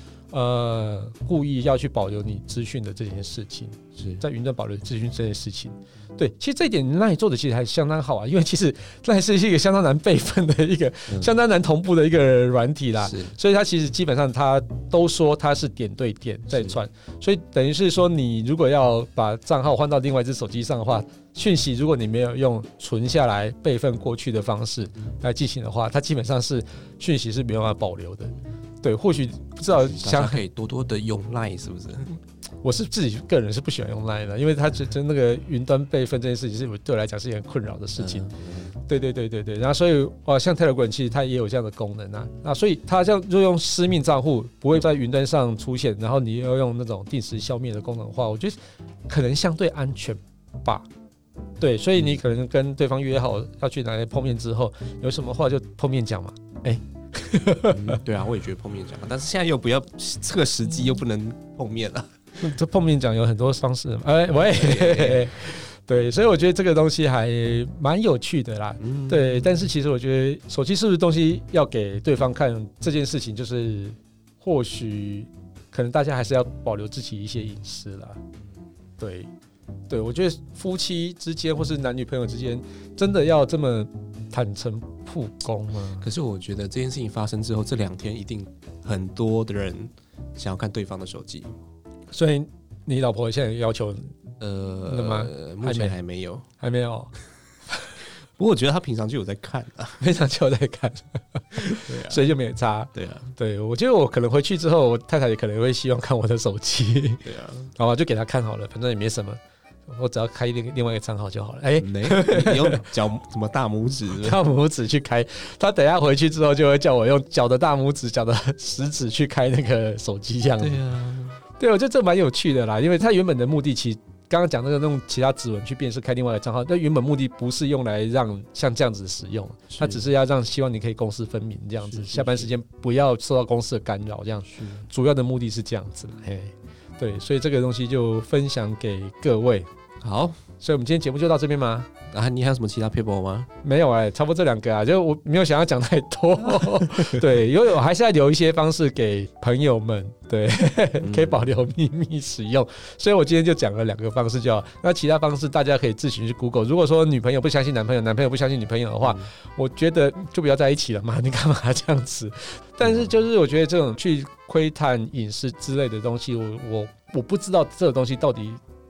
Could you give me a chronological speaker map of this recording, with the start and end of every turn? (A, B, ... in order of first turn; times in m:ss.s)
0:00.3-0:30.4 A
0:04.0-0:04.2 B
0:13.0-0:13.4 B
0:16.5-0:16.8 B
0:29.7-0:32.2 B
0:32.6-0:38.3 A
0:38.0-0:38.7 B
0:38.8-0:48.6 A
0:49.1-0:50.8 A
0:51.6-0:58.0 A
0:57.7-1:02.1 B
1:02.4-1:18.2 A
1:04.4-1:05.3 B
1:08.8-1:09.6 B
1:19.0-1:19.3 A
1:19.9-1:26.1 A
1:26.0-1:31.5 B
1:32.1-1:34.1 A
1:34.4-1:36.4 B
1:34.9-1:36.0 A
1:36.6-1:37.1 A
1:38.4-1:40.0 B
1:40.0-1:47.2 A
1:41.6-1:42.2 B
1:42.9-1:43.3 B
1:47.2-1:47.7 B
1:47.7-1:52.9 A
1:51.8-1:54.4 B
1:54.2-2:00.8 A
2:00.6-2:01.4 B
2:01.6-2:19.6 A
2:09.8-2:10.0 B
2:11.8-2:12.5 B
2:14.5-2:14.8 B
2:20.0-2:20.4 B
2:20.6-2:21.9 A
2:22.1-2:23.5 B
2:23.6-2:48.6 A
2:31.0-2:31.5 B
2:42.8-2:43.1 B